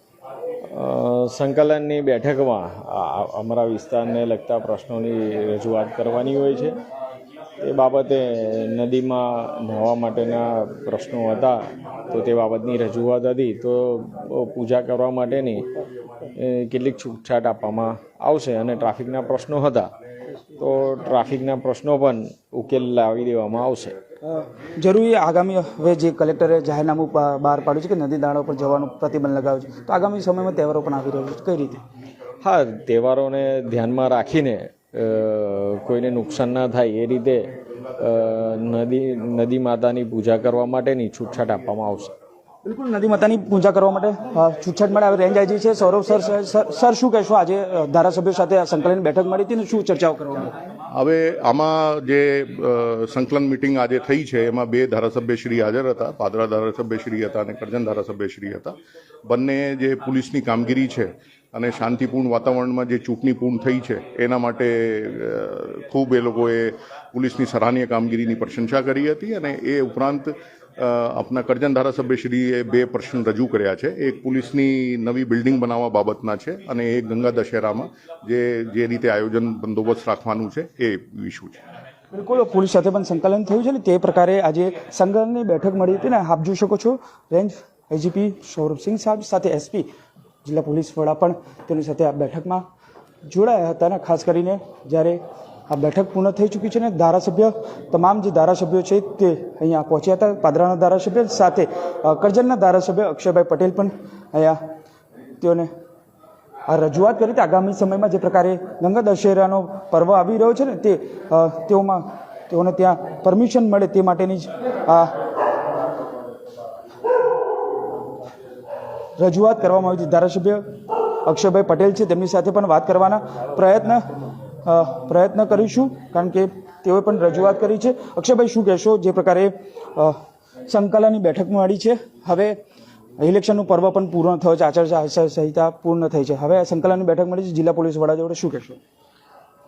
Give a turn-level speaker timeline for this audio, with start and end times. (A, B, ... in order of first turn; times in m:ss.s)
0:00.7-0:06.7 A
0:07.6-0:15.7 A
0:16.3-0:19.9 A
0:20.6-0:24.0 A
0:24.8-0:31.8 B
0:32.4-0:42.1 A
0:42.6-0:50.5 B
0:50.9-0:58.7 C
0:59.2-1:21.6 C
1:22.1-1:29.8 B
1:30.4-1:32.6 B
1:33.2-1:44.6 B
1:45.4-1:45.7 B
1:46.7-1:55.1 B
1:59.2-2:00.6 B
2:01.2-2:04.0 B
2:04.6-2:10.2 B
2:10.7-2:12.6 B
2:13.2-2:18.8 B